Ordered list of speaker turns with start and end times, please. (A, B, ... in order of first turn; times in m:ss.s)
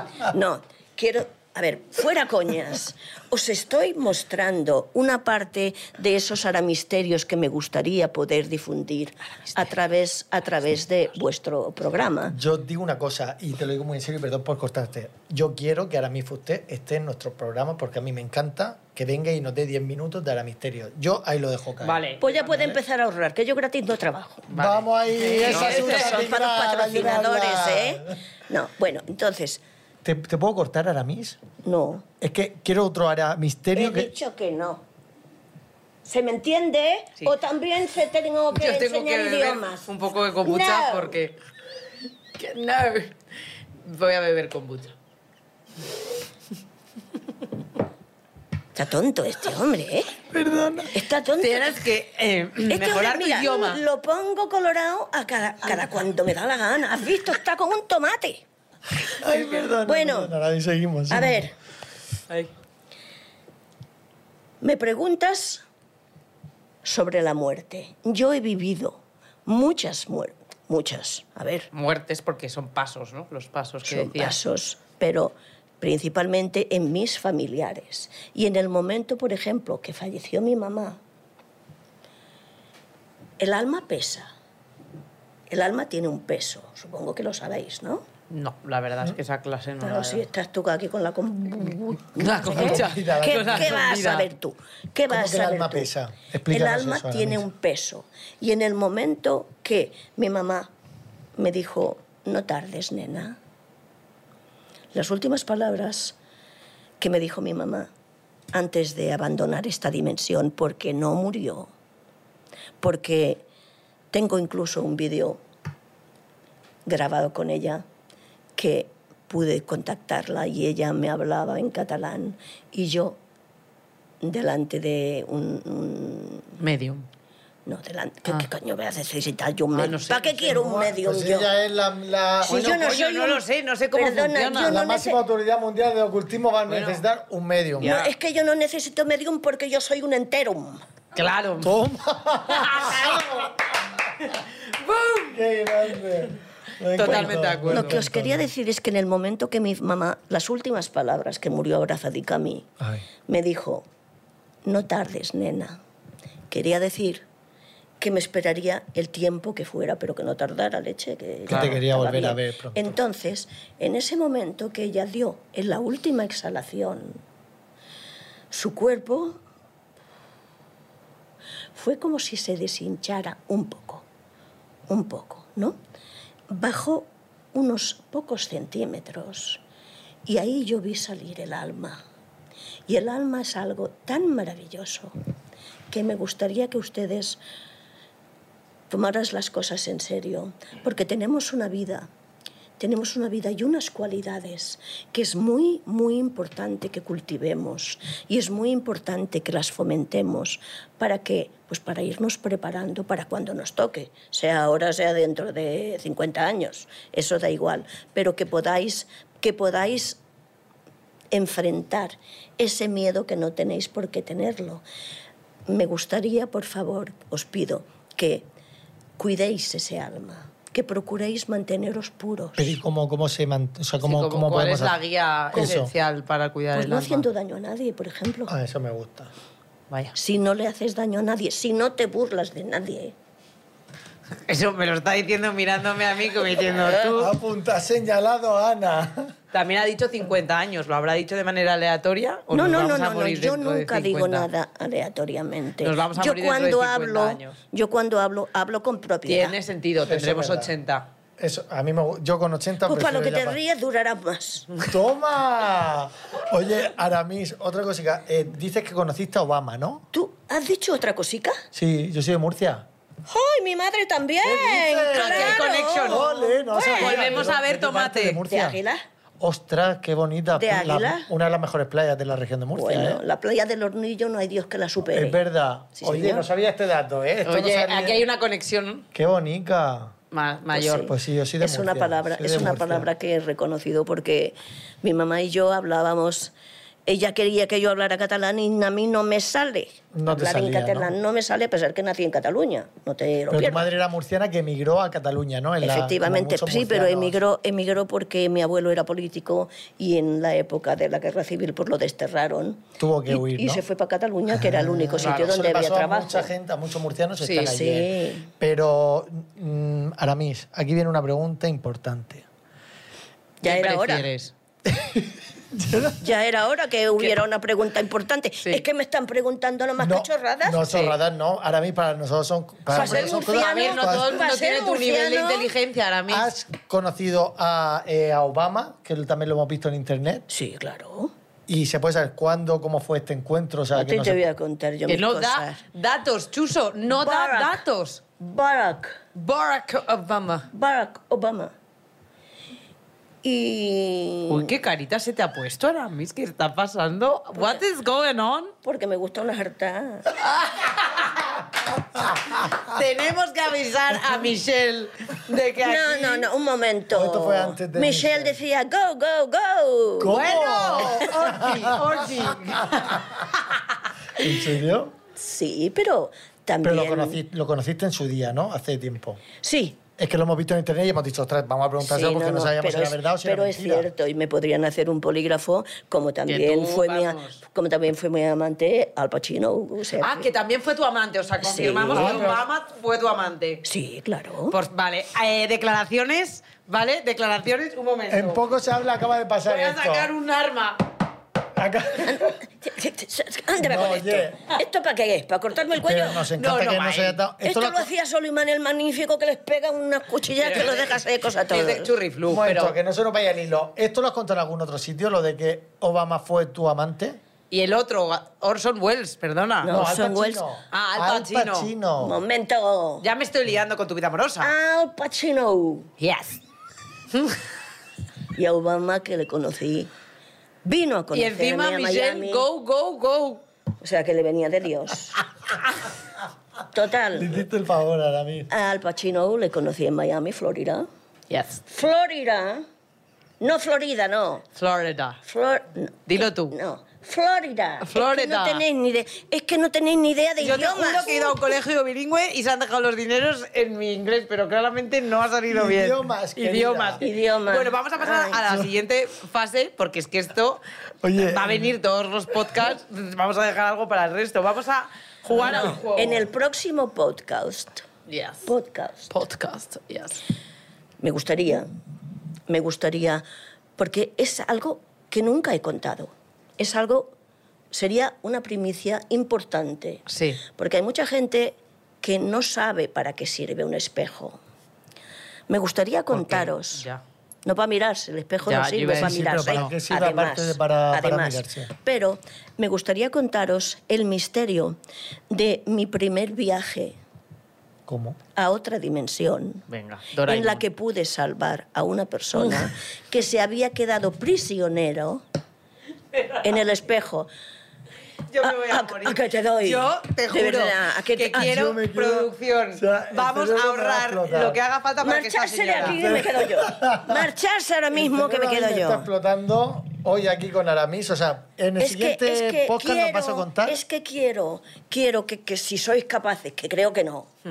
0:00.2-0:12.4 A
0:12.3-0:22.0 B
0:21.8-0:22.7 C
0:22.2-0:24.5 A
0:24.5-0:26.3 C
0:24.5-0:28.1 B
0:25.3-0:29.6 A
0:30.0-0:31.4 B
0:31.6-0:32.0 A
0:32.2-0:34.1 B
0:33.7-0:34.8 A
0:36.0-0:39.9 A
0:38.5-0:41.4 C
0:40.4-0:41.2 A
0:42.4-0:43.2 C
0:43.8-0:44.9 C
0:48.7-0:50.2 A
0:50.3-0:51.0 B
0:50.9-0:51.7 A
0:51.4-0:53.8 C
0:52.7-0:58.4 A
0:59.0-1:01.4 B
0:59.8-1:00.3 A
1:01.1-1:01.5 A
1:04.6-1:05.6 A
1:06.8-1:11.7 A
1:11.7-1:14.4 C
1:13.8-1:21.0 A
1:23.4-1:24.3 A
1:25.5-1:28.0 A
1:28.3-1:30.2 C
1:29.8-1:35.9 A
1:32.2-1:34.3 C
1:32.4-1:33.8 B
1:35.1-1:37.4 B
1:36.5-1:40.7 A
1:41.4-1:43.4 A
1:44.9-1:46.2 A
1:47.0-1:47.9 A
1:48.5-1:51.7 A
1:52.8-1:53.4 A
1:54.1-1:55.4 A
1:56.8-1:57.8 A
1:58.6-2:03.2 A
2:04.2-2:06.5 A
2:06.6-2:07.1 C
2:07.6-2:11.5 A
2:09.7-2:10.9 C
2:10.5-2:12.8 B
2:12.4-2:15.2 A
2:12.4-2:14.8 C
2:14.6-2:17.9 B
2:16.7-2:17.0 C
2:17.8-2:18.1 C
2:17.8-2:20.8 A
2:21.1-2:21.8 C
2:21.6-2:23.4 B
2:22.5-2:23.5 C
2:24.2-2:25.4 C
2:25.3-2:28.5 B
2:27.0-2:28.0 C
2:27.0-2:32.7 A
2:32.8-2:33.0 B
2:33.3-2:33.8 A
2:34.6-2:35.8 A
2:36.5-2:37.2 A
2:38.0-2:47.2 A
2:41.5-2:41.8 C
2:41.5-2:43.0 B
2:48.5-2:49.4 A
2:51.7-2:54.0 A
2:54.9-2:55.8 A
2:56.5-2:59.6 A
3:00.2-3:02.0 A
3:02.9-3:05.1 A
3:05.9-3:07.4 A
3:08.9-3:12.1 A
3:12.8-3:30.2 A
3:31.3-3:34.8 A
3:35.7-3:38.5 A
3:39.2-3:42.8 A
3:42.6-3:45.0 B
3:44.0-3:47.3 C
3:45.5-3:45.9 B
3:46.7-3:48.5 A
3:48.5-3:49.3 B
3:49.9-3:50.1 C
3:50.1-3:53.1 A
3:54.4-3:57.3 C
3:57.0-3:59.3 B
3:59.5-4:04.5 C
4:02.5-4:09.6 A
4:05.8-4:07.6 C
4:09.2-4:11.1 C
4:10.0-4:10.7 B
4:11.4-4:13.6 B
4:12.8-4:14.7 A
4:14.9-4:20.0 B
4:20.1-4:21.6 A
4:21.7-4:22.8 B
4:23.3-4:27.5 A
4:24.4-4:28.8 B
4:25.1-4:28.4 C
4:28.5-4:29.0 A
4:29.4-4:33.2 B
4:30.5-4:31.3 A
4:32.7-4:35.4 A
4:35.1-4:38.2 B
4:35.9-4:36.4 A
4:37.4-4:39.0 C
4:39.1-4:40.2 B
4:40.3-4:41.1 C
4:40.7-4:46.5 A
4:40.9-4:43.1 B
4:47.0-4:53.9 A
4:50.1-4:51.1 B
4:53.5-4:57.4 B
4:55.8-5:06.5 A
5:03.0-5:03.8 B
5:04.5-5:12.4 B
5:05.2-5:05.5 C
5:07.4-5:07.7 C
5:07.6-5:08.5 A
5:13.6-5:14.3 A
5:13.6-5:14.5 C
5:14.9-5:16.2 B
5:16.2-5:20.8 A
5:20.0-5:24.4 B
5:20.9-5:21.2 C
5:22.9-5:25.7 A
5:22.9-5:26.5 C
5:26.3-5:30.5 B
5:30.5-5:31.3 A
5:31.7-5:34.4 B
5:33.9-5:35.8 A
5:35.1-5:38.2 C
5:37.1-5:37.8 A
5:38.4-5:39.2 A
5:39.3-5:40.7 C
5:40.7-5:41.7 A
5:43.4-5:44.7 A
5:44.5-5:48.7 C
5:48.8-5:50.4 A
5:50.6-5:51.6 C
5:52.6-5:56.5 C
5:55.8-6:00.4 A
5:57.1-5:58.6 B
6:00.2-6:03.3 B
6:00.3-6:03.8 C
6:04.4-6:05.1 B
6:05.4-6:07.4 A
6:06.8-6:09.4 B
6:09.6-6:10.0 A
6:10.2-6:14.1 B
6:12.0-6:20.5 A
6:16.5-6:17.6 C
6:20.2-6:23.8 C
6:21.6-6:22.5 A
6:21.9-6:22.6 B
6:23.8-6:24.8 A
6:24.7-6:28.6 C
6:28.3-6:30.3 B
6:29.6-6:31.0 C
6:31.7-6:32.6 B
6:32.2-6:36.4 A
6:33.8-6:34.6 B
6:36.0-6:38.1 B
6:36.5-6:37.4 C
6:37.6-6:42.1 A
6:40.6-6:42.9 C
6:42.5-6:47.4 B
6:47.7-6:50.0 C
6:49.8-6:50.6 A
6:49.8-6:52.4 B
6:50.9-6:51.9 C
6:52.2-6:53.2 A
6:53.2-6:54.7 C
6:54.6-6:56.1 A
6:56.2-6:56.6 C
6:58.5-7:00.1 A
7:00.8-7:02.7 A
7:01.3-7:03.6 C
7:04.0-7:05.4 A
7:06.9-7:07.6 A
7:07.3-7:08.7 B
7:08.7-7:11.1 A
7:11.5-7:11.8 C
7:11.9-7:12.8 A
7:13.6-7:14.6 A
7:14.8-7:15.4 C
7:15.4-7:21.6 A
7:16.3-7:16.7 C
7:18.0-7:18.8 C
7:20.6-7:30.8 C
7:25.7-7:27.2 B
7:27.2-7:28.6 A
7:31.2-7:31.9 B
7:31.4-7:36.4 C
7:35.5-7:38.0 A
7:38.3-7:38.6 C
7:38.6-7:39.3 A
7:39.3-7:40.4 C
7:41.2-7:41.9 A
7:42.7-7:43.4 A
7:44.0-7:47.3 A
7:47.9-7:54.6 A
7:50.3-7:50.6 C
7:55.7-7:57.0 A
7:56.3-7:57.2 C
7:57.6-8:05.0 A
7:58.6-7:59.9 C
7:59.1-8:01.9 B
8:05.5-8:07.2 A
8:08.1-8:08.4 B
8:08.6-8:09.8 A
8:09.9-8:10.8 C
8:10.4-8:15.4 A
8:16.3-8:16.8 C
8:16.6-8:17.5 A
8:18.5-8:26.2 C
8:18.6-8:21.8 A
8:21.5-8:24.8 B
8:25.2-8:29.3 A
8:26.0-8:27.5 B
8:28.1-8:34.0 B
8:32.0-8:37.5 A